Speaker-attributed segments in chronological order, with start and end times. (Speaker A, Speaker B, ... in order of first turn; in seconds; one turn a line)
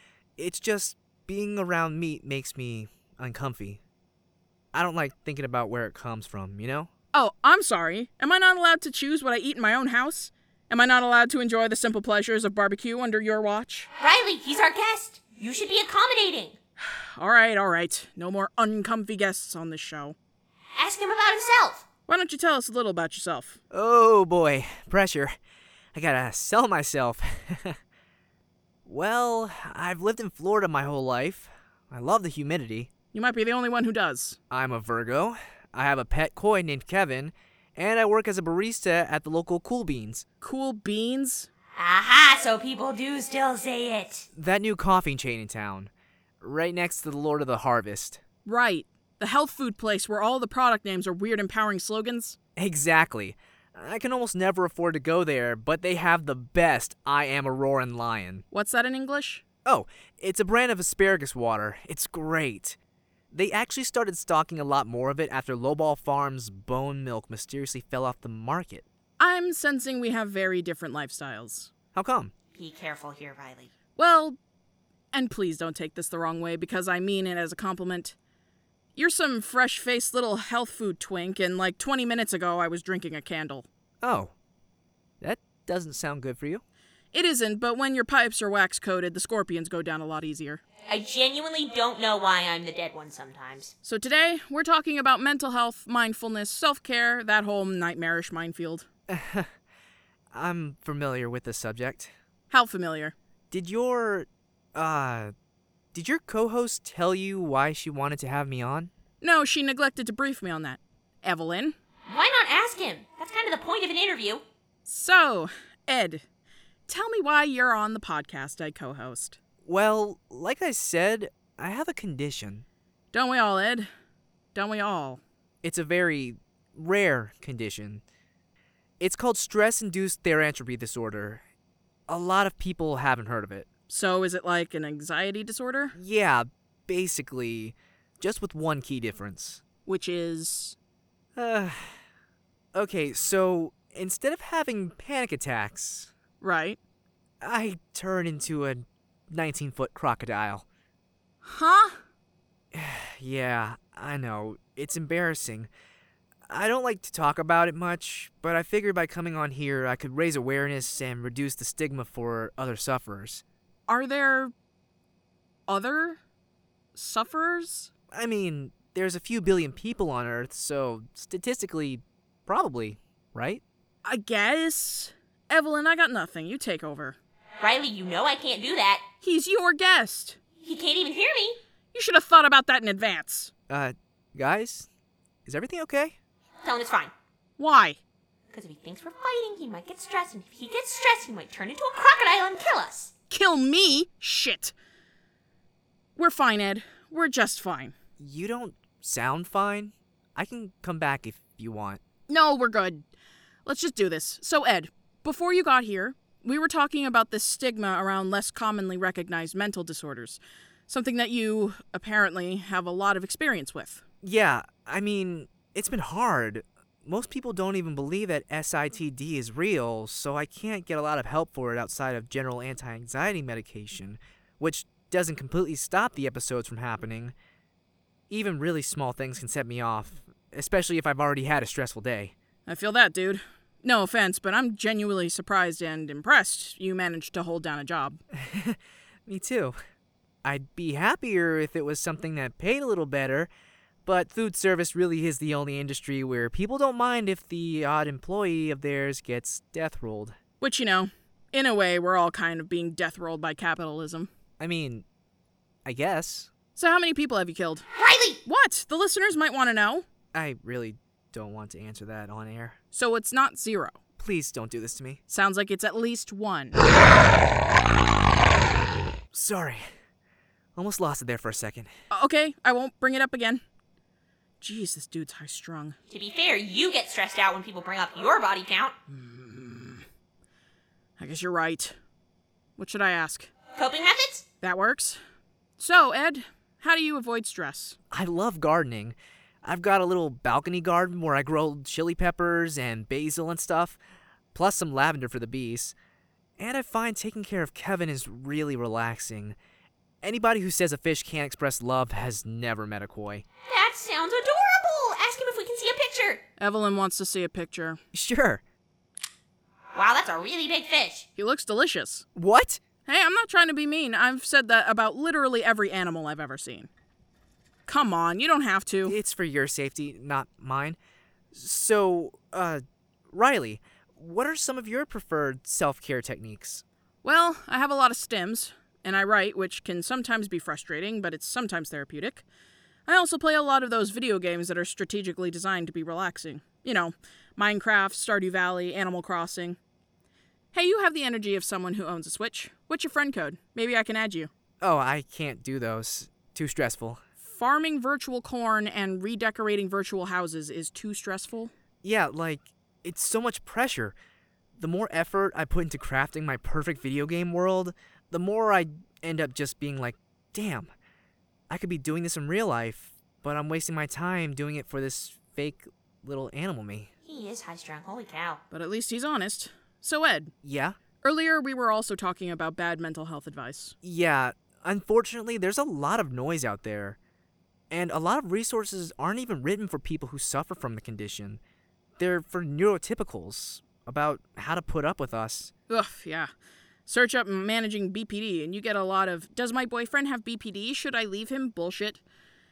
Speaker A: 0.4-3.8
Speaker A: 4.7-6.9
Speaker B: 7.1-13.9
Speaker C: 14.0-16.6
Speaker B: 16.9-20.1
Speaker C: 20.8-21.8
Speaker B: 22.1-23.6
Speaker A: 23.7-25.3
Speaker A: 25.9-27.8
Speaker A: 28.9-32.9
Speaker B: 33.1-34.4
Speaker A: 34.5-40.2
Speaker B: 40.4-41.5
Speaker C: 41.8-44.3
Speaker A: 44.3-48.2
Speaker B: 48.4-52.4
Speaker A: 52.5-58.4
Speaker B: 58.5-59.4
Speaker A: 59.6-62.8
Speaker A: 63.3-68.8
Speaker B: 69.2-71.7
Speaker A: 71.9-72.3
Speaker C: 72.5-73.7
Speaker B: 74.0-74.4
Speaker B: 75.1-78.2
Speaker B: 79.0-83.7
Speaker A: 84.0-84.3
Speaker A: 85.2-86.6
Speaker B: 87.1-90.6
Speaker C: 90.8-93.7
Speaker B: 93.8-98.9
Speaker A: 99.1-99.5
Speaker A: 100.3-102.1
Speaker B: 102.5-103.1
Speaker A: 103.5-105.3
Speaker A: 105.9-108.9
Speaker B: 109.2-111.7
Speaker C: 112.1-114.4
Speaker B: 114.8-116.2
Speaker B: 116.9-119.4
Speaker A: 119.6-122.6
Speaker B: 123.1-123.9
Speaker B: 124.5-125.2
Speaker A: 125.6-128.0
Speaker A: 129.0-131.4
Speaker A: 132.1-133.7
Speaker B: 133.9-135.9
Speaker A: 135.9-139.6
Speaker B: 139.8-140.8
Speaker A: 141.3-142.0
Speaker A: 142.7-146.1
Speaker B: 146.4-146.8
Speaker A: 147.4-150.6
Speaker B: 151.4-152.0
Speaker A: 152.7-155.7
Speaker A: 156.5-163.4
Speaker B: 163.9-164.5
Speaker B: 165.7-166.2
Speaker B: 166.9-167.9
Speaker A: 168.1-173.6
Speaker B: 174.0-177.2
Speaker C: 177.6-179.0
Speaker B: 179.2-180.4
Speaker C: 180.6-181.6
Speaker B: 181.9-183.5
Speaker A: 183.7-184.9
Speaker A: 185.4-186.2
Speaker C: 186.6-187.1
Speaker B: 187.6-188.0
Speaker C: 188.5-193.1
Speaker B: 193.3-194.7
Speaker B: 196.2-197.9
Speaker A: 198.2-202.0
Speaker B: 202.3-203.0
Speaker B: 203.7-214.0
Speaker A: 214.2-227.3
Speaker A: 228.3-232.3
Speaker B: 232.7-238.2
Speaker A: 238.3-239.8
Speaker A: 240.4-243.5
Speaker A: 244.0-250.3
Speaker B: 250.6-254.3
Speaker A: 254.6-255.0
Speaker A: 255.8-256.5
Speaker B: 256.8-257.9
Speaker C: 258.0-258.4
Speaker B: 258.4-260.0
Speaker A: 260.3-262.8
Speaker B: 262.9-264.0
Speaker A: 264.2-265.2
Speaker B: 265.3-266.8
Speaker A: 269.3-269.8
Speaker A: 270.7-271.9
Speaker B: 272.1-273.6
Speaker B: 274.6-275.9
Speaker C: 276.1-278.9
Speaker B: 279.1-280.0
Speaker B: 281.2-281.9
Speaker B: 282.8-283.5
Speaker C: 283.7-284.4
Speaker B: 284.6-285.2
Speaker B: 285.8-288.0
Speaker A: 288.1-294.0
Speaker A: 294.5-295.9
Speaker A: 296.6-299.6
Speaker A: 300.2-303.4
Speaker C: 303.7-306.4
Speaker B: 306.6-308.0
Speaker A: 308.1-308.6
Speaker C: 309.9-311.3
Speaker B: 311.4-312.2
Speaker A: 312.3-312.8
Speaker B: 313.1-316.9
Speaker B: 317.9-319.1
Speaker A: 319.0-321.0
Speaker A: 321.5-326.8
Speaker B: 327.2-332.4
Speaker B: 333.1-339.8
Speaker B: 340.7-344.5
Speaker A: 344.8-347.2
Speaker B: 347.4-351.7
Speaker A: 352.0-354.1
Speaker A: 354.8-360.9
Speaker A: 361.7-367.1
Speaker C: 367.3-368.6
Speaker B: 368.7-370.5
Speaker A: 370.6-371.0
Speaker B: 371.2-373.9
Speaker A: 374.0-377.2
Speaker A: 377.9-381.6
Speaker A: 382.2-385.7
Speaker B: 385.9-386.5
Speaker B: 387.1-392.2